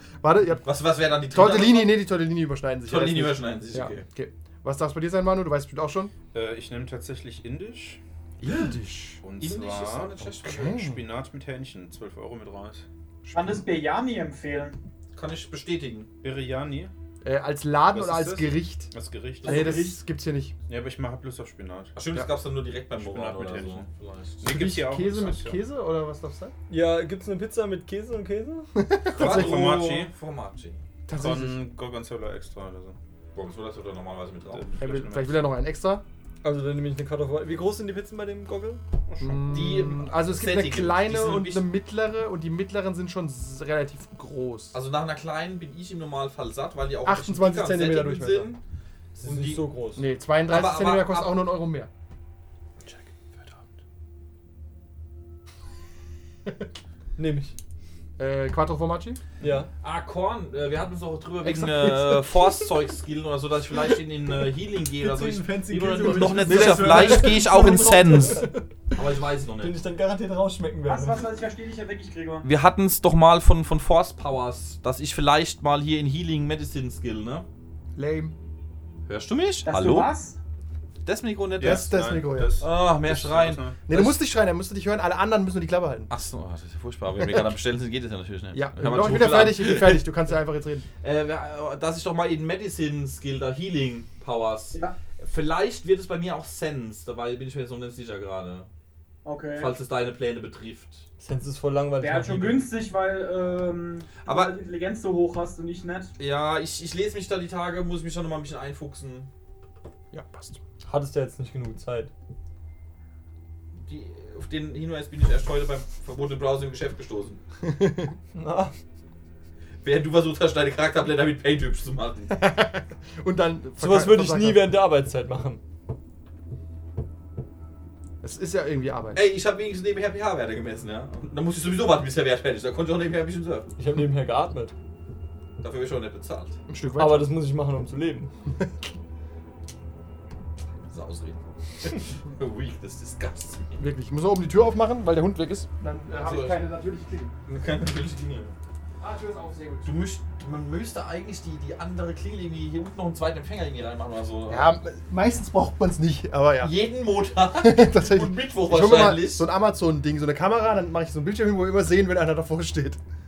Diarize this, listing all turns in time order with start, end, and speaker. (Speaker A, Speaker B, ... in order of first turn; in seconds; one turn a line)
Speaker A: 0.2-0.7
Speaker B: 0.6-2.1
Speaker A: 1.3-6.1
Speaker B: 2.9-4.1
Speaker C: 6.3-8.0
Speaker A: 8.4-9.2
Speaker C: 9.2-12.9
Speaker B: 9.4-10.8
Speaker A: 10.4-11.0
Speaker A: 13.2-13.7
Speaker D: 13.3-14.8
Speaker B: 15.1-16.1
Speaker C: 16.2-16.9
Speaker A: 17.2-20.6
Speaker C: 17.9-19.9
Speaker D: 19.4-20.0
Speaker C: 20.7-22.0
Speaker B: 21.9-24.4
Speaker C: 22.9-25.6
Speaker A: 24.4-26.5
Speaker E: 26.7-28.7
Speaker A: 28.8-29.7
Speaker C: 29.1-30.1
Speaker B: 29.1-30.8
Speaker A: 31.1-31.7
Speaker C: 31.1-33.0
Speaker B: 33.4-34.7
Speaker C: 34.5-35.5
Speaker A: 34.8-36.0
Speaker E: 36.4-38.8
Speaker C: 39.2-39.5
Speaker A: 39.2-44.8
Speaker B: 39.5-41.7
Speaker B: 44.7-48.6
Speaker A: 47.0-48.5
Speaker B: 49.2-49.7
Speaker E: 49.2-50.1
Speaker A: 50.0-51.9
Speaker B: 50.5-51.4
Speaker C: 52.9-53.5
Speaker E: 57.2-57.5
Speaker A: 58.2-59.2
Speaker E: 59.4-59.7
Speaker B: 59.8-69.8
Speaker A: 61.4-62.7
Speaker E: 65.0-68.5
Speaker A: 66.1-68.3
Speaker E: 69.6-71.2
Speaker D: 70.9-72.5
Speaker B: 72.4-77.5
Speaker A: 78.0-78.3
Speaker B: 79.1-80.1
Speaker D: 79.7-80.4
Speaker B: 81.0-81.9
Speaker C: 81.6-83.8
Speaker A: 81.6-82.6
Speaker B: 82.6-84.2
Speaker A: 83.9-86.1
Speaker B: 86.1-90.1
Speaker A: 87.2-87.4
Speaker A: 88.5-90.9
Speaker B: 91.0-98.7
Speaker D: 99.2-99.7
Speaker B: 99.6-101.0
Speaker E: 101.2-102.7
Speaker D: 102.0-106.1
Speaker B: 104.3-104.6
Speaker B: 106.2-109.3
Speaker A: 110.1-110.6
Speaker E: 110.8-112.1
Speaker B: 113.8-117.4
Speaker A: 117.7-118.1
Speaker E: 118.3-118.8
Speaker B: 119.8-122.4
Speaker A: 122.3-124.8
Speaker E: 123.8-125.6
Speaker A: 128.2-129.2
Speaker B: 129.2-133.7
Speaker E: 133.8-134.7
Speaker B: 135.6-136.6
Speaker A: 136.7-137.4
Speaker E: 137.0-138.3
Speaker B: 140.8-143.8
Speaker A: 143.8-147.3
Speaker B: 146.1-146.6
Speaker B: 147.5-148.5
Speaker A: 149.0-150.0
Speaker B: 149.8-154.8
Speaker A: 154.5-156.9
Speaker B: 156.6-159.5
Speaker A: 157.6-163.0